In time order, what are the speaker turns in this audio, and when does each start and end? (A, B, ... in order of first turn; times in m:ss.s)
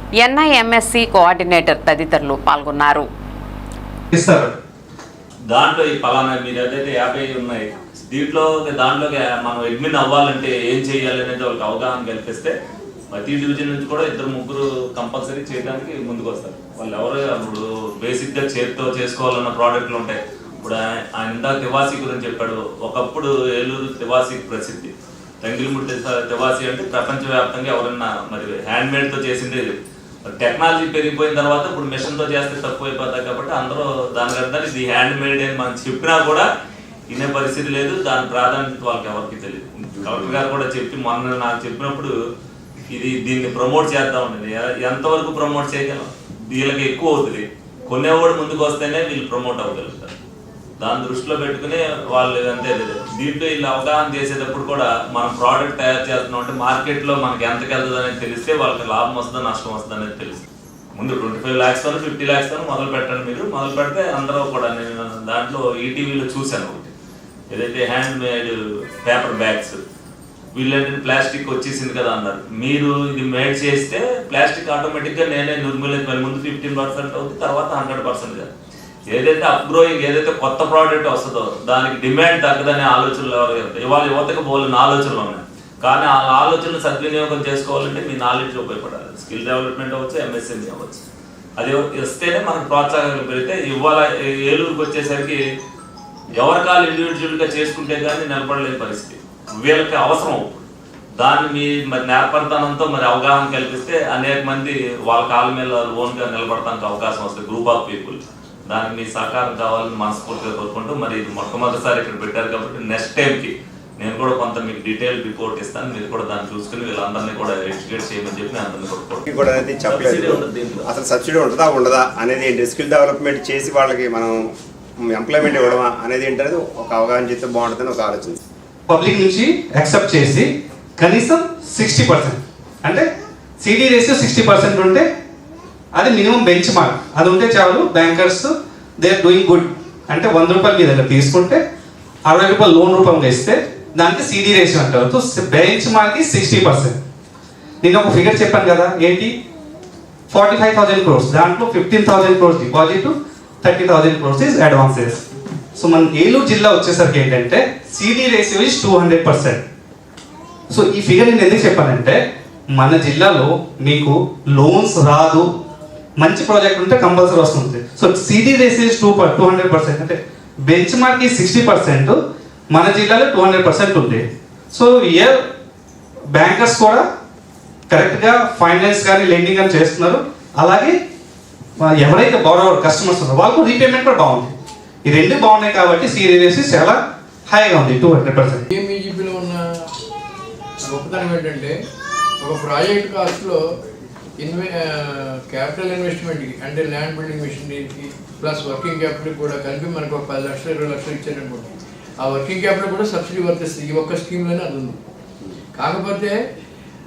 0:00.2-0:03.0 A
0:04.1-0:04.5 B
0:05.5-0:12.5 C
0:13.1-0:29.8 C
0:30.4-0:36.4 C
0:37.1-0:42.1 C
0:42.9-0:50.1 C
0:50.8-1:00.4 C
1:00.9-1:06.9 C
1:07.5-1:09.8 C
1:10.5-1:18.5 C
1:19.1-1:31.0 C
1:31.6-1:35.4 C
1:36.4-1:40.7 C
1:41.2-1:59.2 C
1:59.2-2:04.4 D
1:59.9-2:00.9 C
2:05.0-2:08.4 D
2:08.9-2:10.5 B
2:11.0-2:13.0 B
2:13.6-2:15.0 B
2:16.0-2:21.6 B
2:22.3-2:27.0 B
2:27.8-2:29.3 B
2:30.3-2:35.2 B
2:35.8-2:39.6 B
2:40.7-2:42.2 B
2:42.7-2:45.5 B
2:46.2-2:52.2 B
2:52.7-2:55.4 B
2:56.3-2:57.0 B
2:57.9-3:01.0 B
3:01.8-3:04.5 B
3:05.0-3:08.6 B
3:08.7-3:09.6 E
3:10.8-3:11.8 E
3:12.4-3:13.6 E
3:14.4-3:21.7 E
3:22.2-3:25.0 E
3:25.8-3:26.4 E